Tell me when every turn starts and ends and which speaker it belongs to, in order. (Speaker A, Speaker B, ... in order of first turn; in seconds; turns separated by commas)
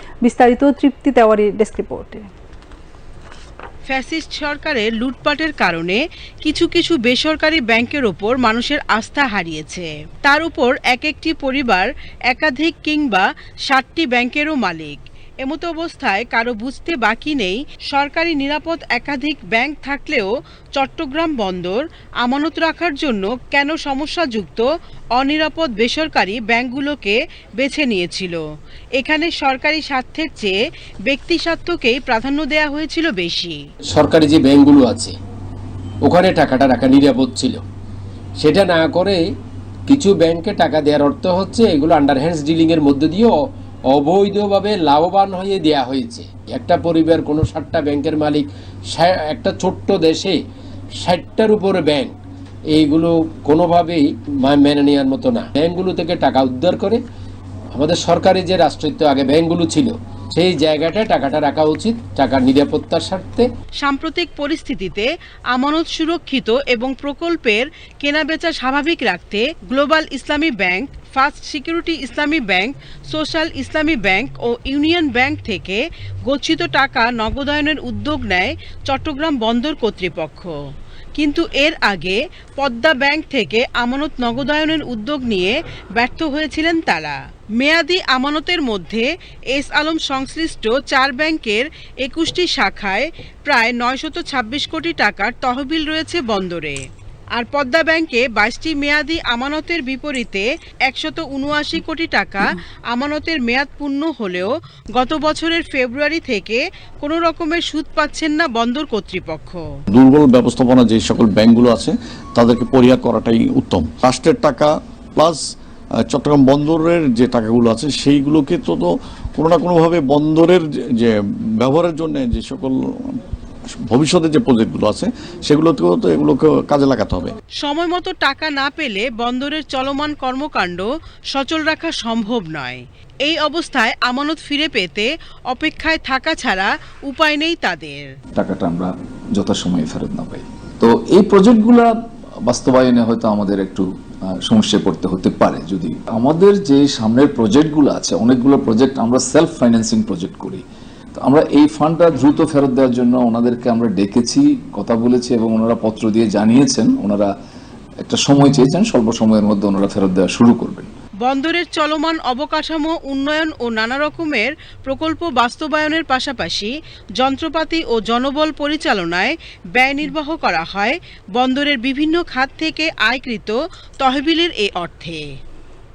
Speaker A: 0.2-2.2, Speaker B: 3.9-28.4, Speaker B: 29.0-33.6, Speaker C: 33.9-35.1, Speaker C: 36.0-37.6, Speaker C: 38.4-39.2, Speaker C: 39.9-43.3, Speaker C: 43.9-50.4, Speaker C: 51.0-52.1, Speaker C: 52.7-57.0, Speaker C: 57.7-63.5, Speaker B: 63.8-80.5, Speaker B: 81.2-96.8, Speaker B: 97.3-109.6, Speaker D: 109.9-115.4, Speaker D: 116.0-123.2, Speaker D: 123.8-127.3, Speaker B: 127.6-138.1, Speaker E: 138.3-143.9, Speaker E: 144.4-157.3, Speaker E: 158.0-160.9, Speaker B: 161.2-175.2